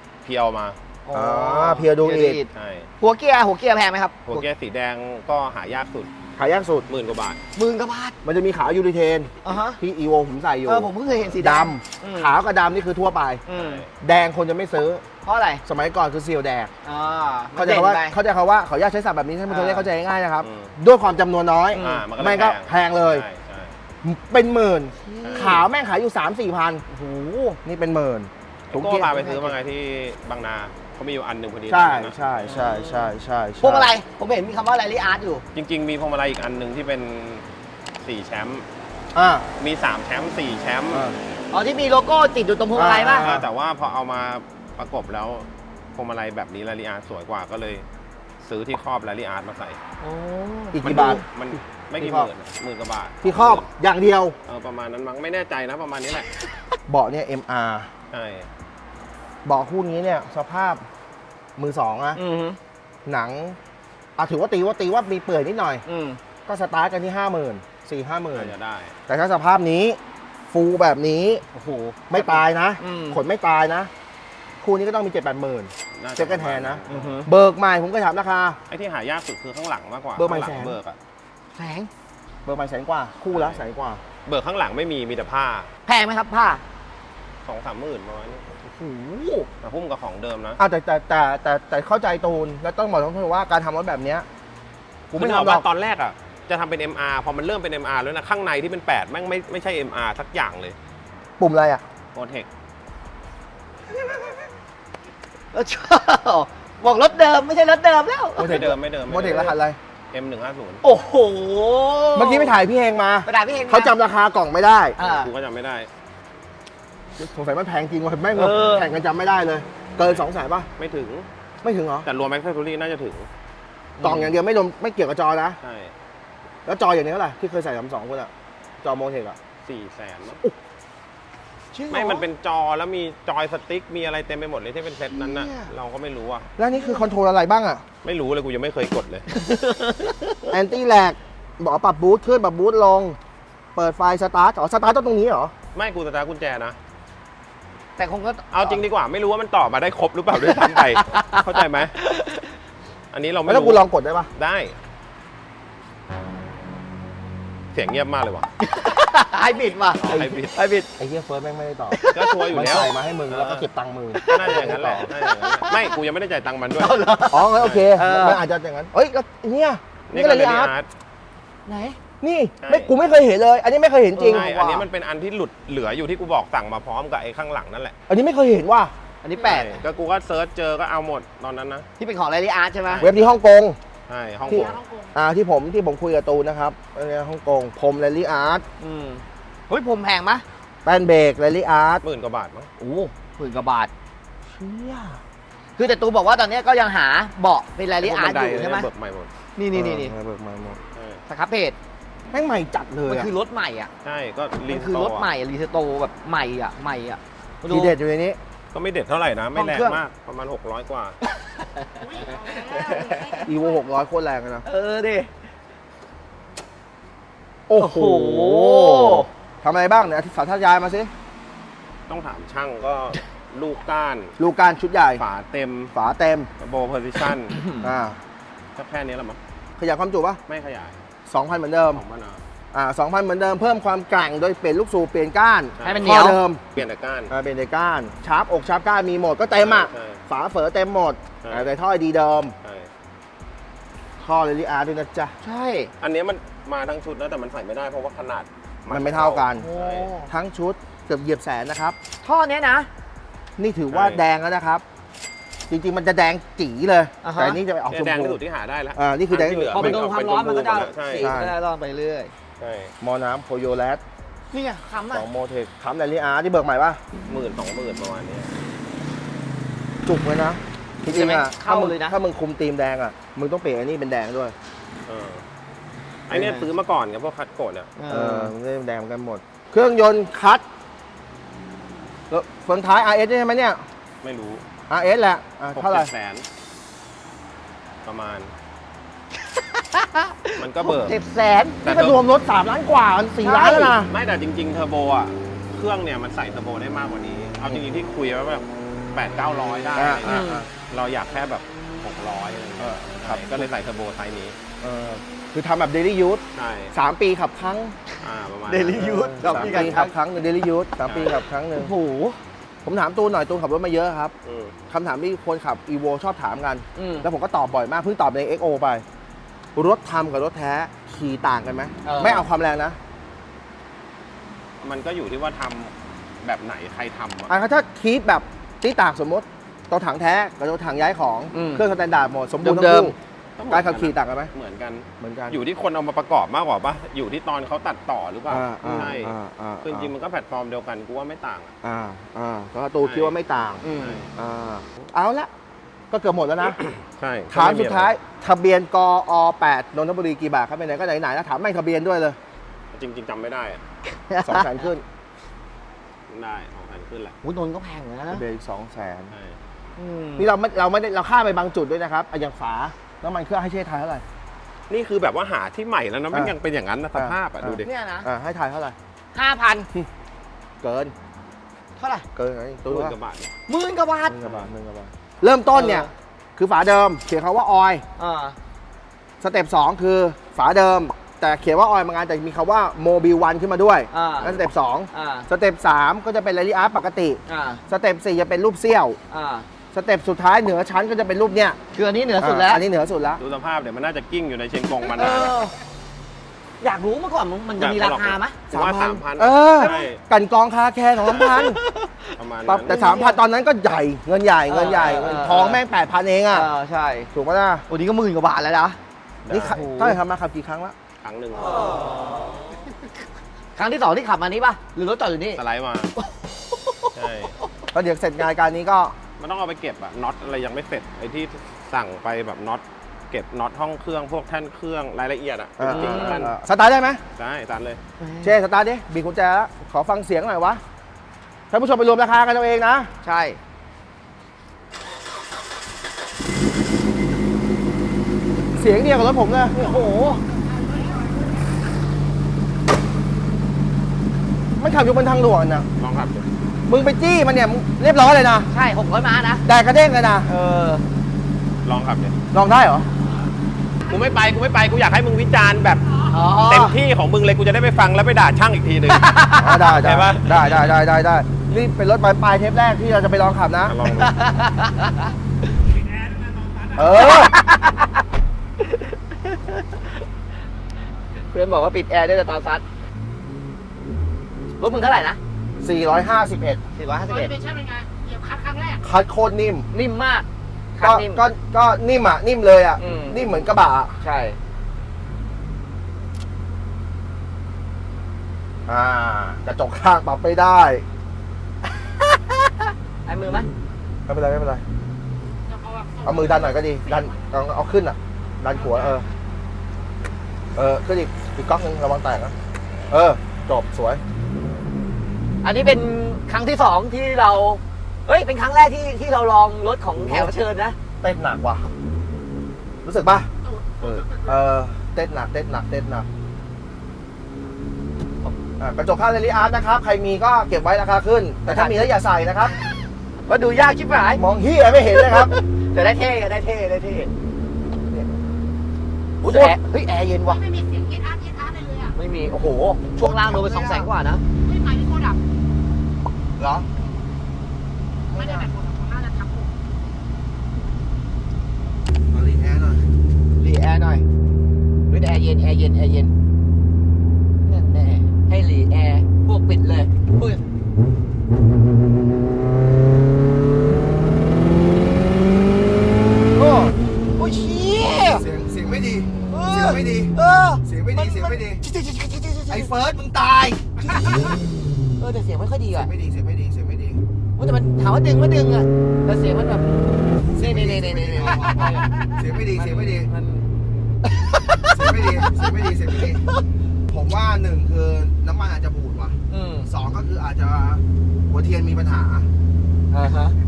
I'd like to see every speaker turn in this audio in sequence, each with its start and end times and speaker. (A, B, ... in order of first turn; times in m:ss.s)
0:00.2-0:00.8 A
0:01.0-0:02.5 B
0:01.1-0:02.4 C
0:02.5-0:02.9 A
0:03.0-0:04.5 B
0:04.3-0:06.1 A
0:06.4-0:06.9 C
0:06.9-0:07.4 A
0:07.6-0:08.2 B
0:08.2-0:13.4 C
0:09.4-0:09.8 B
0:10.6-0:12.3 B
0:13.5-0:13.8 B
0:13.5-0:13.9 A
0:14.0-0:15.0 C
0:15.2-0:15.6 B
0:15.6-0:16.7 C
0:16.8-0:18.2 B
0:17.6-0:23.2 C
0:19.5-0:19.9 B
0:20.4-0:20.7 A
0:21.7-0:22.1 B
0:21.8-0:23.8 A
0:24.0-0:26.8 C
0:25.0-0:25.6 B
0:25.2-0:25.6 A
0:26.9-0:27.6 B
0:27.6-0:29.2 C
0:28.7-0:32.5 A
0:29.1-0:29.5 B
0:31.7-0:33.9 C
0:32.5-0:35.4 B
0:35.6-0:37.4 A
0:38.0-0:38.6 A
0:39.1-0:39.5 C
0:39.6-0:41.0 A
0:40.9-0:41.2 C
0:41.5-0:43.3 B
0:42.8-0:43.5 C
0:43.2-0:47.8 A
0:48.4-0:49.8 A
0:50.0-0:51.2 B
0:50.7-0:51.2 C
0:50.8-0:53.7 A
0:52.0-0:52.3 C
0:53.2-0:54.4 C
0:54.5-0:56.3 A
0:56.9-0:57.9 C
0:58.1-0:58.5 A
0:59.4-1:00.8 C
1:01.6-1:02.2 C
1:02.1-1:02.6 B
1:03.1-1:03.6 C
1:04.2-1:05.8 C
1:05.9-1:06.2 B
1:06.5-1:08.5 C
1:08.3-1:09.0 A
1:09.1-1:10.0 C
1:10.5-1:11.4 C
1:11.5-1:13.2 B
1:12.1-1:13.9 C
1:14.6-1:18.6 C
1:15.9-1:17.2 A
1:16.9-1:17.3 B
1:18.7-1:21.0 A
1:20.2-1:20.8 C
1:21.6-1:21.9 B
1:22.5-1:24.0 C
1:23.3-1:23.6 A
1:24.2-1:25.7 A
1:25.9-1:26.6 B
1:27.4-1:28.4 A
1:28.6-1:29.5 B
1:29.6-1:30.6 A
1:30.6-1:34.3 C
1:35.1-1:35.6 C
1:35.1-1:40.8 A
1:41.4-1:41.8 C
1:42.1-1:42.5 A
1:45.5-1:48.6 B
1:48.4-1:49.8 C
1:48.4-1:49.6 A
1:50.1-1:50.8 A
1:50.8-1:52.6 B
1:52.1-1:55.0 C
1:53.2-1:53.9 B
1:55.0-1:55.3 B
1:55.0-1:55.9 A
1:57.2-2:00.7 C
1:58.4-1:58.9 B
2:00.8-2:01.3 A
2:01.6-2:02.1 C
2:02.0-2:03.3 A
2:04.0-2:04.4 B
2:04.0-2:05.6 C
2:05.6-2:05.9 A
2:06.6-2:08.3 C
2:08.8-2:09.4 C
2:09.6-2:10.4 A
2:11.7-2:12.3 B
2:11.9-2:16.5 A
2:15.1-2:15.7 B
2:16.6-2:17.8 C
2:18.0-2:19.3 A
2:19.3-2:20.5 B
2:20.5-2:23.2 C
2:23.8-2:25.5 C
2:25.7-2:26.8 A
2:28.0-2:28.8 B
2:28.5-2:31.9 A
2:30.4-2:32.5 B
2:33.1-2:34.8 A
2:33.4-2:34.3 C
2:37.7-2:38.5 A
2:38.6-2:40.9 B
2:40.0-2:40.6 A
2:41.0-2:42.0 C
2:41.9-2:42.5 B
2:42.1-2:43.7 A
2:42.5-2:45.1 C
2:44.1-2:45.9 B
2:44.2-2:47.0 A
2:46.8-2:48.4 B
2:47.3-2:50.7 C
2:47.6-2:47.9 A
2:50.1-2:50.9 A
2:51.6-2:52.0 B
2:52.2-2:54.5 C
2:52.6-2:52.9 A
2:54.2-2:54.9 B
2:54.3-2:57.9 A
2:58.1-2:58.9 C
2:59.2-2:59.8 B
2:59.4-3:01.9 A
3:02.0-3:03.0 B
3:02.9-3:03.4 A
3:03.0-3:03.8 C
3:04.1-3:04.8 A
3:04.5-3:08.6 C
3:04.5-3:05.1 D
3:08.8-3:10.4 B
3:10.8-3:12.0 C
3:12.0-3:12.7 A
3:12.8-3:13.9 B
3:14.5-3:15.2 C
3:15.8-3:18.9 B
3:18.0-3:19.3 A
3:19.6-3:20.1 B
3:19.7-3:20.8 C
3:20.9-3:21.2 A
3:21.3-3:21.8 B
3:22.3-3:23.3 C
3:23.1-3:23.9 B
3:24.0-3:25.3 A
3:24.6-3:28.0 B
3:27.7-3:28.4 C
3:28.7-3:31.2 A
3:29.6-3:30.0 B
3:31.3-3:33.5 B
3:32.1-3:33.3 D
3:33.4-3:34.6 C
3:34.6-3:35.3 B
3:37.7-3:41.1 C
3:37.8-3:39.3 B
3:42.1-3:44.4 A
3:44.4-3:45.2 C
3:45.2-3:45.9 A
3:45.9-3:46.5 C
3:46.6-3:47.6 A
3:47.6-3:47.9 B
3:47.8-3:48.2 C
3:48.8-3:49.4 A
3:49.8-3:50.4 C
3:50.5-3:51.0 A
3:51.3-3:52.0 C
3:51.9-3:52.4 A
3:52.7-3:56.6 C
3:55.8-3:57.3 A
3:55.8-3:56.4 B
3:57.3-4:02.6 C
3:59.6-4:00.2 A
4:01.4-4:01.8 A
4:02.6-4:02.9 A
4:04.2-4:05.4 C
4:05.4-4:05.9 B
4:06.0-4:10.1 A
4:08.9-4:09.7 C
4:09.5-4:10.3 B
4:10.3-4:12.0 C
4:12.2-4:12.9 B
4:13.6-4:14.8 C
4:13.9-4:14.2 A
4:15.7-4:18.4 C
4:17.2-4:17.6 B
4:17.9-4:21.3 A
4:18.9-4:20.0 C
4:19.7-4:22.3 B
4:21.2-4:21.5 C
4:22.6-4:22.9 A
4:23.0-4:24.0 C
4:24.5-4:25.3 B
4:25.1-4:27.0 C
4:27.3-4:28.5 A
4:30.0-4:34.6 C
4:31.1-4:32.2 B
4:35.1-4:35.4 A
4:36.3-4:37.9 A
4:36.3-4:36.7 B
4:38.0-4:38.5 B
4:38.1-4:40.6 C
4:42.3-4:43.8 C
4:44.2-4:44.6 A
4:44.9-4:46.1 C
4:45.8-4:46.4 A
4:48.0-4:48.5 A
4:49.4-4:51.8 B
4:50.6-4:51.2 A
4:51.8-4:52.2 A
4:51.8-4:54.1 C
4:53.4-4:54.0 B
4:54.0-5:04.6 A
5:00.0-5:00.7 C
5:00.2-5:00.6 B
5:02.8-5:03.7 C
5:04.8-5:07.9 C
5:06.5-5:06.9 A
5:08.2-5:10.0 A
5:08.7-5:10.1 B
5:09.1-5:11.9 C
5:11.0-5:11.4 A
5:11.8-5:12.4 B
5:12.8-5:14.3 C
5:14.4-5:14.8 A
5:14.9-5:19.0 C
5:17.0-5:17.3 B
5:19.8-5:23.0 C
5:22.0-5:22.5 B
5:24.8-5:27.5 A
5:27.5-5:33.1 C
5:31.5-5:31.8 B
5:32.6-5:33.1 B
5:33.6-5:41.7 A
5:33.7-5:34.5 C
5:35.2-5:35.6 C
5:38.5-5:40.1 C
5:41.8-5:43.8 C
5:43.0-5:43.4 A
5:43.8-5:44.3 B
5:43.9-5:44.3 A
5:44.4-5:45.5 C
5:46.1-5:46.8 C
5:46.8-5:48.1 A
5:47.5-5:52.4 C
5:52.9-5:53.9 A
5:54.1-5:54.8 B
5:54.4-5:55.0 C
5:56.3-5:57.4 A
5:57.4-5:58.4 B
5:58.3-5:59.3 C
5:59.3-5:59.6 A
6:00.0-6:00.5 B
6:00.4-6:04.2 C
6:04.9-6:07.9 A
6:07.1-6:08.9 C
6:07.8-6:08.3 B
6:09.3-6:09.9 B
6:10.8-6:11.1 C
6:12.0-6:12.3 B
6:12.4-6:13.2 C
6:12.9-6:13.5 A
6:13.7-6:14.4 B
6:14.3-6:18.0 C
6:14.4-6:14.7 A
6:15.7-6:16.1 B
6:18.2-6:18.6 B
6:19.4-6:29.2 C
6:24.1-6:24.6 B
6:25.1-6:25.5 B
6:27.5-6:27.8 B
6:29.3-6:29.6 B
6:29.9-6:31.8 C
6:31.9-6:32.8 B
6:32.4-6:33.4 C
6:33.4-6:35.6 A
6:35.1-6:35.7 B
6:36.8-6:38.6 B
6:37.8-6:40.2 A
6:38.7-6:41.8 C
6:39.8-6:40.1 B
6:41.3-6:41.7 A
6:41.3-6:43.4 B
6:42.4-6:43.0 A
6:42.6-6:46.7 C
6:44.7-6:45.8 B
6:46.5-6:47.3 B
6:47.3-6:47.8 C
6:47.9-6:49.0 B
6:49.4-6:49.8 A
6:49.5-6:50.9 C
6:49.6-6:50.2 B
6:51.2-6:52.0 A
6:51.6-6:52.5 B
6:53.8-6:55.6 B
6:55.6-6:56.1 A
6:56.2-6:57.1 B
6:57.1-6:57.6 A
6:57.9-6:59.2 C
6:59.4-7:06.6 A
7:05.8-7:07.2 C
7:05.8-7:06.5 B
7:07.4-7:08.0 A
7:08.2-7:08.6 B
7:08.4-7:10.8 C
7:11.7-7:13.1 C
7:13.2-7:13.6 B
7:18.8-7:19.8 C
7:19.7-7:20.4 B
7:20.5-7:21.5 D
7:24.8-7:25.9 C
7:26.0-7:26.5 A
7:26.9-7:28.7 C
7:28.7-7:29.6 B
7:29.6-7:30.5 C
7:30.5-7:31.0 B
7:31.8-7:32.4 A
7:32.5-7:33.1 C
7:34.1-7:41.0 A
7:36.3-7:37.0 B
7:39.1-7:40.0 B
7:39.6-7:43.9 C
7:43.8-7:44.4 A
7:44.1-7:45.3 B
7:46.1-7:47.2 A
7:46.9-7:47.5 C
7:47.1-7:48.2 B
7:48.8-7:50.2 B
7:51.5-7:52.8 B
7:54.8-7:55.4 B
7:55.8-7:56.8 C
7:57.0-7:57.6 B
7:57.3-7:59.0 D
7:59.0-7:59.9 C
7:59.9-8:01.4 B
8:01.0-8:04.2 C
8:03.0-8:03.6 B
8:04.2-8:04.6 B
8:08.9-8:11.0 C
8:13.3-8:13.7 B
8:14.3-8:14.8 C
8:15.6-8:17.5 D
8:16.2-8:19.2 C
8:18.8-8:19.3 D
8:20.8-8:22.6 C
8:23.1-8:24.2 C
8:25.6-8:31.0 B
8:30.1-8:30.5 C
8:31.2-8:31.9 C
8:33.0-8:33.5 C
8:34.0-8:34.4 D
8:34.0-8:36.3 C
8:38.8-8:42.7 C
8:41.6-8:42.1 B
8:43.5-8:44.4 B
8:44.3-8:45.5 C
8:45.1-8:47.3 B
8:49.4-8:50.6 B
8:49.4-8:49.7 C
8:50.4-8:52.2 D
8:52.1-8:54.4 B
8:53.1-8:54.1 C
8:54.6-8:55.4 D
8:56.6-8:56.9 C
8:58.3-8:58.7 B
8:58.3-8:59.7 D
9:02.3-9:03.1 C
9:03.6-9:04.2 B
9:05.1-9:06.3 B
9:07.6-9:10.6 B
9:16.6-9:18.4 B
9:18.2-9:21.8 C
9:19.5-9:22.9 B
9:22.7-9:24.0 C
9:24.0-9:24.6 B
9:25.2-9:26.1 B
9:25.9-9:27.2 C
9:27.6-9:33.6 B
9:30.5-9:33.3 C
9:34.2-9:36.6 B
9:34.9-9:36.5 C
9:37.1-9:42.5 C
9:39.5-9:39.9 B
9:43.1-9:43.6 B